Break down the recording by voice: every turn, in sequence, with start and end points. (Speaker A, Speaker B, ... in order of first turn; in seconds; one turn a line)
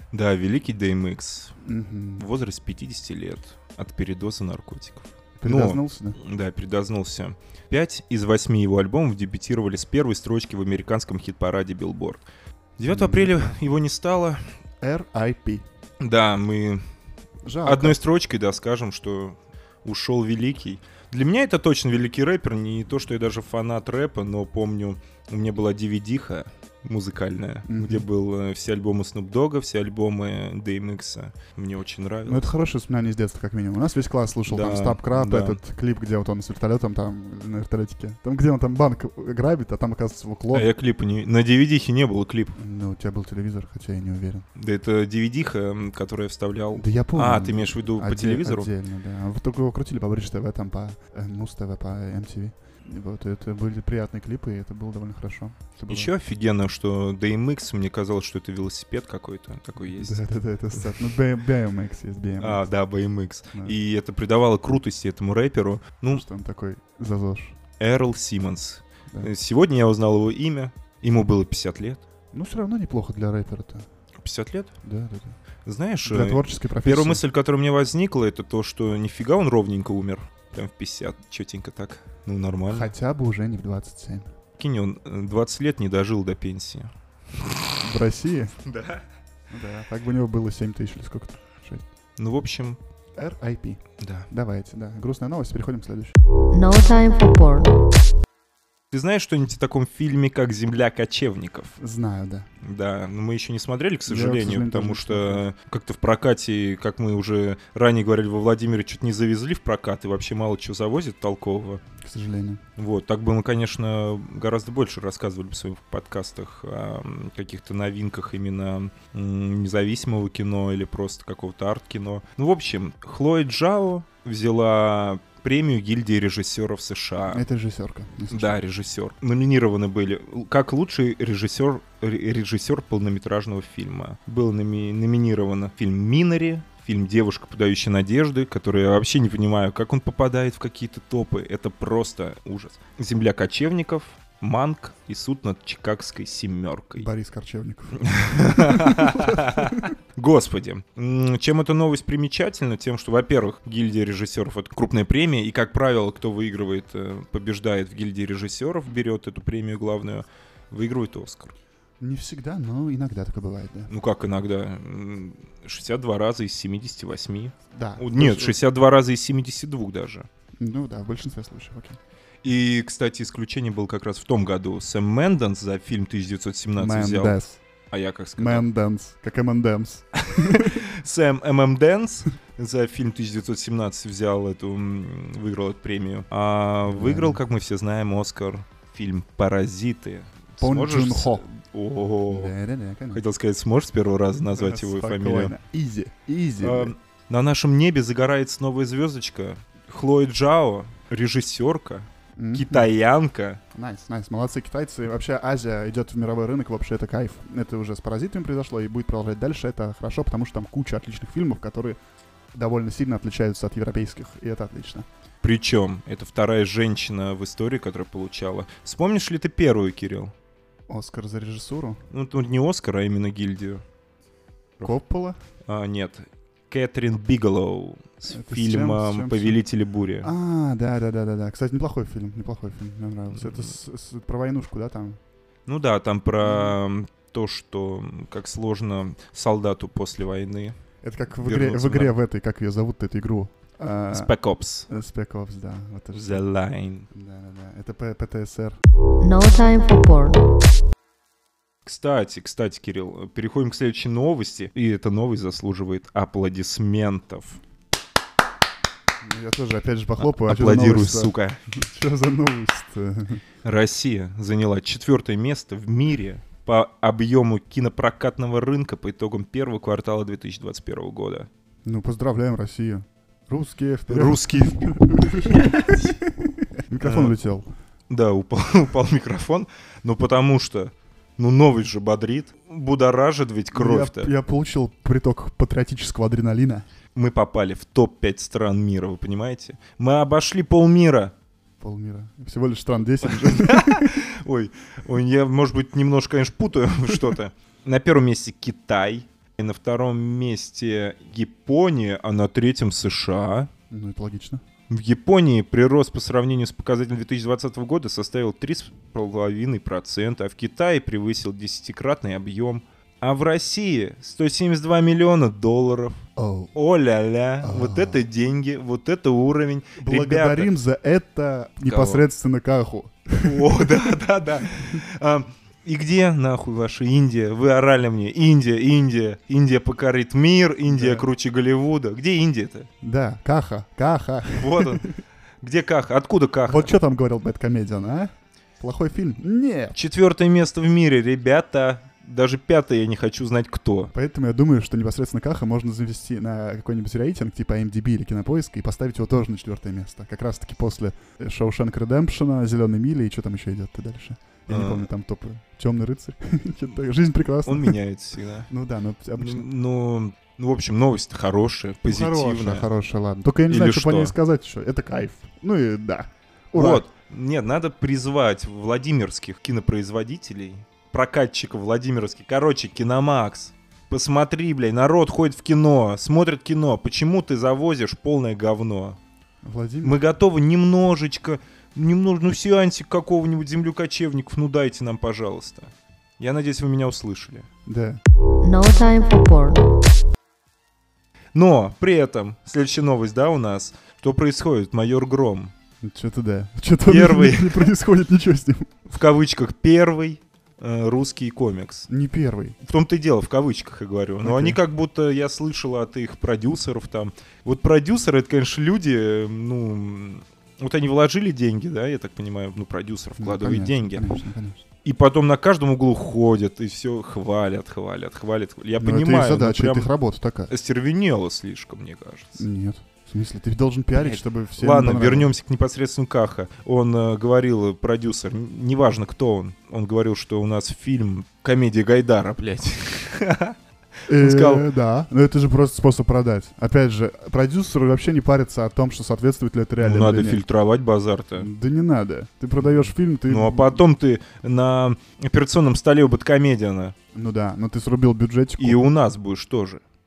Speaker A: 0.1-1.6
Speaker B: 1.6-2.3
Speaker A: 2.2-12.2
Speaker B: 5.4-6.2
Speaker A: 12.8-14.4
Speaker B: 12.9-13.3
Speaker B: 14.8-15.6
Speaker A: 16.0-16.8
Speaker B: 17.4-18.0
Speaker A: 17.6-32.5
Speaker B: 27.7-28.1
Speaker B: 32.3-40.7
Speaker A: 34.5-35.6
Speaker A: 40.5-42.6
Speaker B: 42.6-44.5
Speaker A: 44.5-48.7
Speaker B: 46.8-56.1
Speaker A: 55.9-60.2
Speaker B: 59.8-62.6
Speaker A: 62.4-66.2
Speaker B: 66.1-67.6
Speaker A: 67.8-72.0
Speaker B: 72.3-73.9
Speaker A: 74.2-74.7
Speaker B: 74.8-75.4
Speaker A: 75.7-82.9
Speaker B: 76.1-77.2
Speaker B: 82.7-84.3
Speaker A: 84.6-86.9
Speaker B: 87.8-88.6
Speaker A: 88.6-89.0
Speaker B: 89.5-91.8
Speaker A: 92.2-92.8
Speaker B: 93.2-96.2
Speaker A: 94.0-94.3
Speaker C: 96.5-97.8
Speaker A: 98.9-101.8
Speaker B: 101.8-102.5
Speaker A: 102.6-111.8
Speaker B: 104.1-105.5
Speaker B: 112.0-112.6
Speaker A: 112.8-127.4
Speaker B: 127.3-128.6
Speaker A: 128.3-147.1
Speaker B: 147.0-149.9
Speaker A: 148.0-161.5
Speaker B: 162.0-163.9
Speaker A: 163.9-170.3
Speaker B: 167.7-168.6
Speaker B: 170.6-172.0
Speaker A: 172.4-177.4
Speaker B: 176.8-177.6
Speaker A: 177.9-178.7
Speaker B: 178.4-180.8
Speaker A: 180.2-192.5
Speaker B: 186.9-187.4
Speaker B: 190.6-191.5
Speaker B: 192.3-193.2
Speaker A: 193.1-195.6
Speaker B: 194.5-196.9
Speaker A: 196.6-203.6
Speaker B: 202.4-202.9
Speaker B: 203.7-212.0
Speaker B: 212.5-215.1
Speaker A: 215.4-220.3
Speaker B: 220.9-222.0
Speaker A: 222.1-223.8
Speaker B: 224.8-225.4
Speaker A: 225.7-230.3
Speaker B: 228.3-229.6
Speaker B: 230.2-235.2
Speaker A: 233.3-233.6
Speaker A: 235.7-240.8
Speaker B: 236.4-236.8
Speaker B: 241.0-244.3
Speaker A: 241.4-242.2
Speaker A: 244.1-244.9
Speaker B: 244.9-246.4
Speaker A: 246.1-247.1
Speaker B: 247.1-248.8
Speaker C: 249.2-250.5
Speaker A: 251.8-257.6
Speaker B: 259.2-263.4
Speaker A: 260.2-261.6
Speaker A: 263.6-271.5
Speaker B: 271.9-277.7
Speaker A: 274.1-276.1
Speaker A: 277.0-277.4
Speaker A: 278.1-284.3
Speaker B: 283.7-286.9
Speaker A: 287.1-291.3
Speaker B: 291.8-294.2
Speaker A: 293.3-303.7
Speaker B: 303.9-304.6
Speaker A: 304.9-316.2
Speaker B: 316.4-316.7
Speaker A: 316.7-320.7
Speaker B: 317.6-318.2
Speaker B: 320.0-323.9
Speaker A: 321.8-322.2
Speaker A: 323.4-332.9
Speaker B: 330.9-331.3
Speaker B: 333.0-335.2
Speaker A: 334.5-336.9
Speaker B: 336.7-339.9
Speaker A: 339.9-344.1
Speaker B: 344.1-358.0
Speaker A: 354.7-355.1
Speaker A: 357.6-358.7
Speaker B: 358.7-359.6
Speaker A: 359.4-362.9
Speaker B: 362.1-367.0
Speaker A: 363.7-364.3
Speaker A: 366.7-379.2
Speaker B: 379.6-380.2
Speaker A: 380.0-387.7
Speaker B: 387.9-388.2
Speaker C: 388.6-389.9
Speaker A: 391.6-395.7
Speaker B: 396.0-398.9
Speaker A: 397.1-397.9
Speaker A: 399.1-402.1
Speaker B: 402.1-402.8
Speaker A: 402.8-414.4
Speaker B: 404.4-404.8
Speaker B: 413.4-414.8
Speaker A: 415.0-420.1
Speaker B: 419.0-420.7
Speaker A: 420.7-422.7
Speaker B: 422.6-425.5
Speaker A: 424.1-434.9
Speaker B: 434.3-440.6
Speaker A: 440.0-441.7
Speaker B: 441.6-444.0
Speaker A: 442.8-447.1
Speaker B: 447.3-449.0
Speaker A: 448.8-450.0